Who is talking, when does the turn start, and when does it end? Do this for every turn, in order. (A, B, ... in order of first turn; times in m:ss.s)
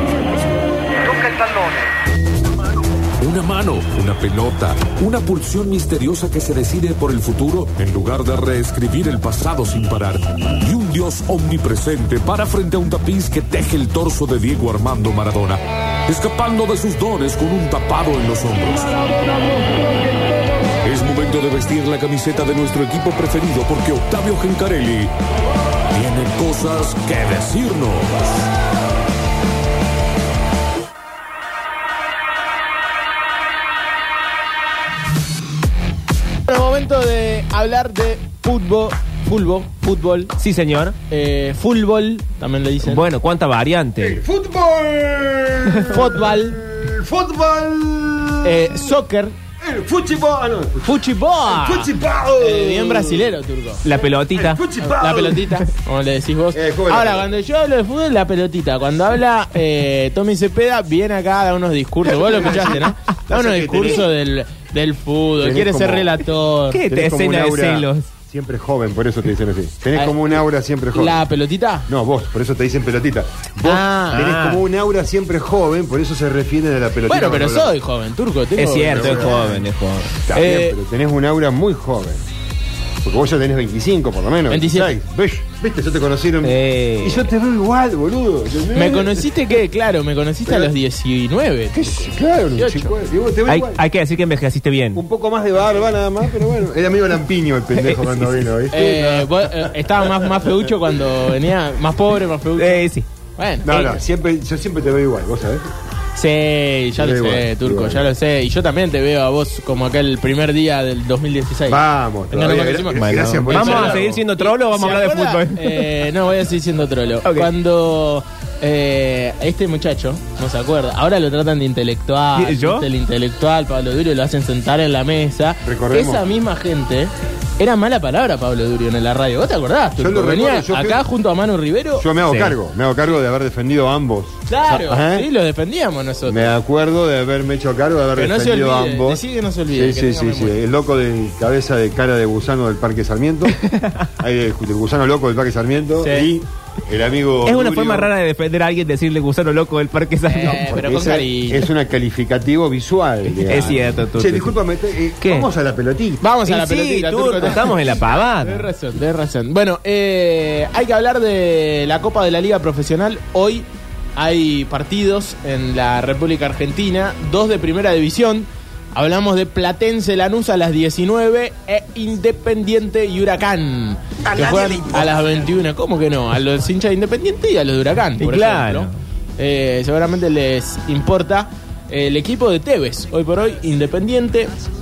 0:01.0-0:01.8 A
0:03.2-0:19.2 A
0:20.8-0:25.1 A
0:25.9-0:28.3 A
0:36.4-0:40.3 B
0:40.4-0:41.0 C
0:41.1-0:43.1 B
0:42.8-0:44.2 C
0:44.0-0:49.0 D
0:45.7-0:46.2 C
0:45.9-0:46.6 B
0:48.4-0:49.3 B
0:49.6-0:53.4 D
0:50.8-0:53.8 B
0:53.8-0:54.6 C
0:54.0-0:55.6 D
0:54.8-1:06.8 B
0:56.5-0:57.4 D
1:02.3-1:03.1 C
1:03.3-1:04.1 D
1:05.4-1:06.2 D
1:06.7-1:08.1 C
1:06.9-1:11.2 D
1:09.9-1:11.9 B
1:11.9-1:17.7 D
1:13.6-1:14.2 B
1:14.1-1:14.6 C
1:17.1-1:19.6 B
1:18.6-1:20.1 C
1:18.9-1:19.6 D
1:20.2-1:22.2 D
1:20.3-1:20.8 B
1:23.0-1:29.3 D
1:24.5-1:24.9 B
1:26.4-1:27.3 C
1:28.7-1:32.9 B
1:30.5-1:30.7 D
1:31.7-1:33.8 D
1:33.4-1:35.0 C
1:34.9-1:40.7 D
1:37.7-1:38.4 C
1:38.7-1:44.0 B
1:42.6-1:43.1 C
1:43.6-1:45.7 D
1:46.1-2:12.1 B
1:47.0-1:48.1 D
1:51.7-1:54.0 D
1:52.9-1:56.1 C
1:57.2-1:57.5 C
2:02.3-2:02.9 C
2:05.6-2:06.3 D
2:10.0-2:11.0 D
2:12.0-2:15.3 D
2:12.2-2:12.6 C
2:14.5-2:16.5 B
2:16.2-2:23.6 D
2:18.1-2:20.6 B
2:23.4-2:24.1 C
2:24.2-2:28.1 D
2:26.0-2:26.3 B
2:27.4-2:30.9 C
2:30.3-2:31.7 B
2:30.4-2:36.2 D
2:33.3-2:34.6 C
2:33.5-2:33.9 B
2:35.2-2:35.5 C
2:36.2-3:04.5 B
2:36.4-2:38.7 C
2:58.2-2:58.9 C